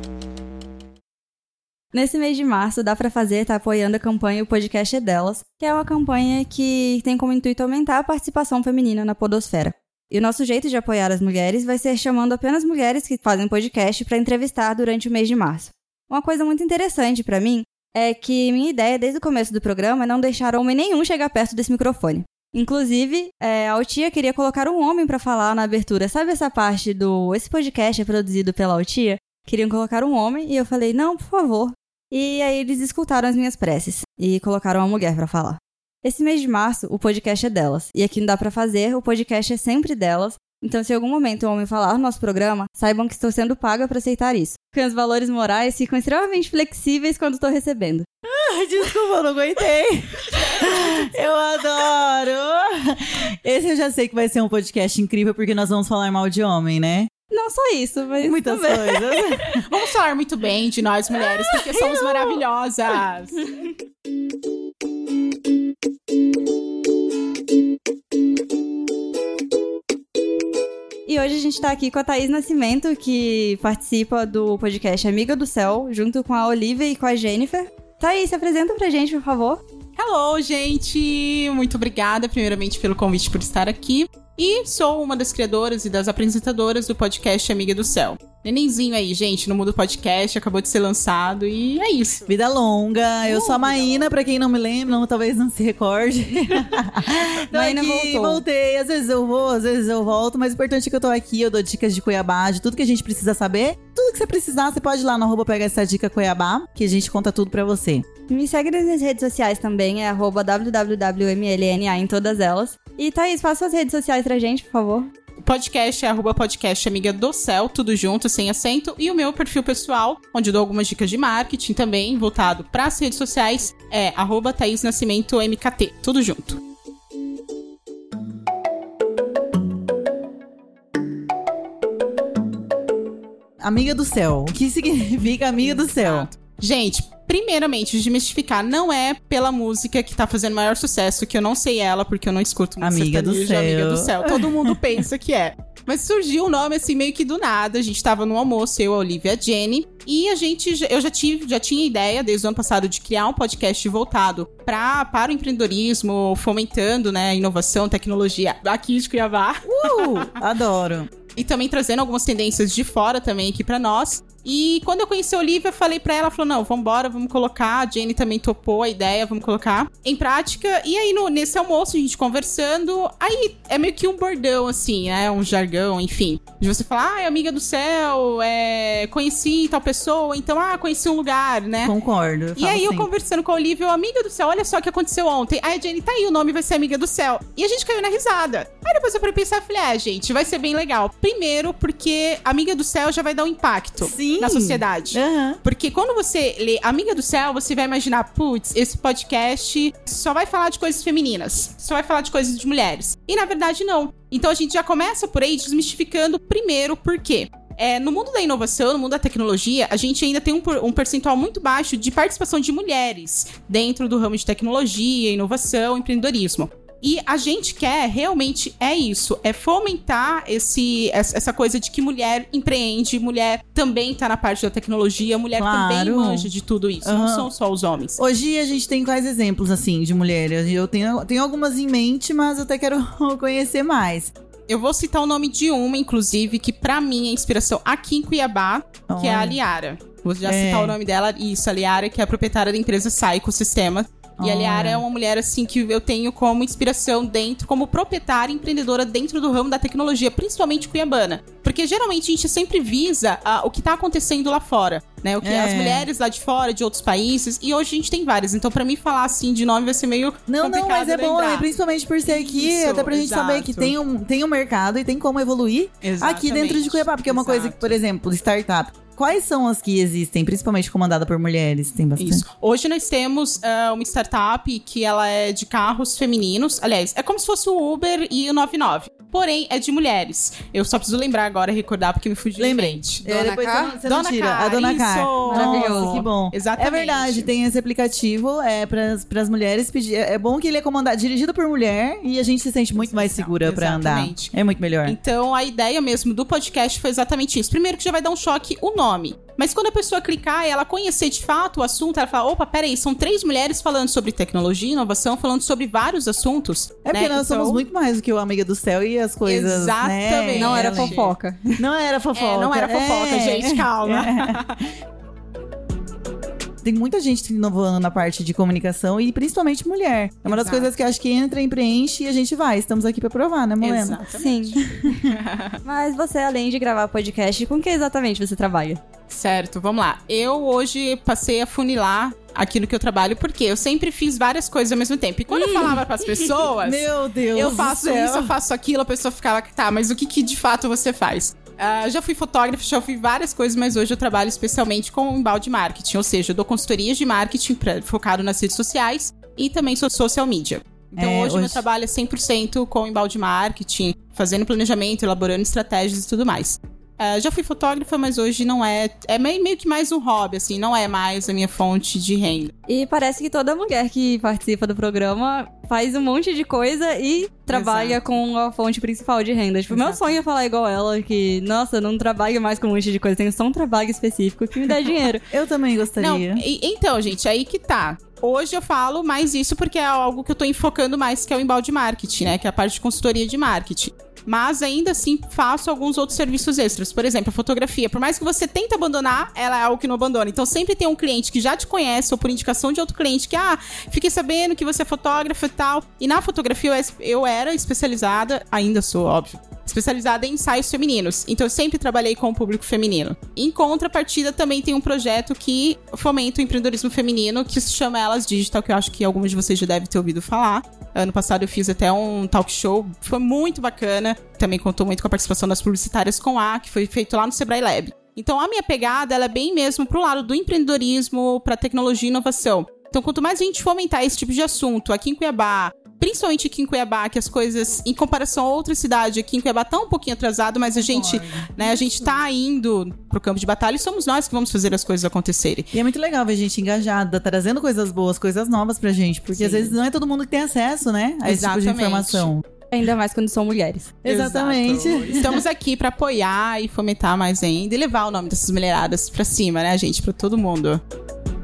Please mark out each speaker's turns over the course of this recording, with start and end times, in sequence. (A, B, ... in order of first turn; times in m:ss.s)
0:01.9-0:48.1 A
0:48.2-0:57.1 B
0:57.3-0:59.3 A
0:58.2-0:59.7 B
0:59.5-1:03.4 C
1:01.2-1:02.0 B
1:11.1-1:19.6 A
1:20.0-1:32.3 C
1:32.3-1:48.1 B
1:33.2-1:34.1 C
1:37.3-1:38.4 A
1:48.3-1:55.1 A
1:55.4-2:06.6 C
2:13.6-2:16.3 B
2:15.6-2:40.4 C
2:22.8-2:24.8 B
2:39.6-2:41.1 B
2:41.3-3:01.9 C
3:01.8-3:03.1 B
3:02.6-3:48.2 C
3:14.0-3:15.6 B
3:45.6-3:46.5 B
3:47.0-3:47.5 B
3:48.2-3:54.3 B
3:54.7-4:21.7 C
3:59.1-3:59.6 B
4:00.4-4:01.0 B
4:04.4-4:05.0 B
4:15.4-4:16.1 B
4:20.5-4:32.4 B
4:22.2-4:24.0 C
4:26.0-4:28.0 C
4:32.2-4:43.2 C
4:42.6-4:55.2 B
4:43.2-4:44.0 A
4:44.0-4:47.5 C
4:45.5-4:46.3 A
4:53.0-5:07.9 C
5:07.0-5:11.2 B
5:09.4-5:11.4 C
5:10.5-5:11.8 A
5:11.8-5:14.6 B
5:12.3-5:14.8 C
5:16.8-5:24.2 B
5:20.5-5:20.9 C
5:23.8-5:25.8 C
5:24.3-5:25.2 A
5:24.9-5:25.2 B
5:25.8-5:29.0 A
5:29.3-6:02.7 C
5:35.5-5:36.6 A
5:36.8-5:38.6 B
5:51.2-5:51.8 B
6:02.9-6:15.5 A
6:07.7-6:08.2 C
6:07.8-6:08.2 B
6:09.9-6:10.3 B
6:15.5-6:16.6 B
6:16.2-7:15.9 C
7:11.1-7:12.1 B
7:15.9-7:22.6 B
7:19.5-7:20.0 C
7:21.4-7:22.5 C
7:22.9-7:24.1 A
7:24.2-7:25.6 B
7:24.2-7:31.0 C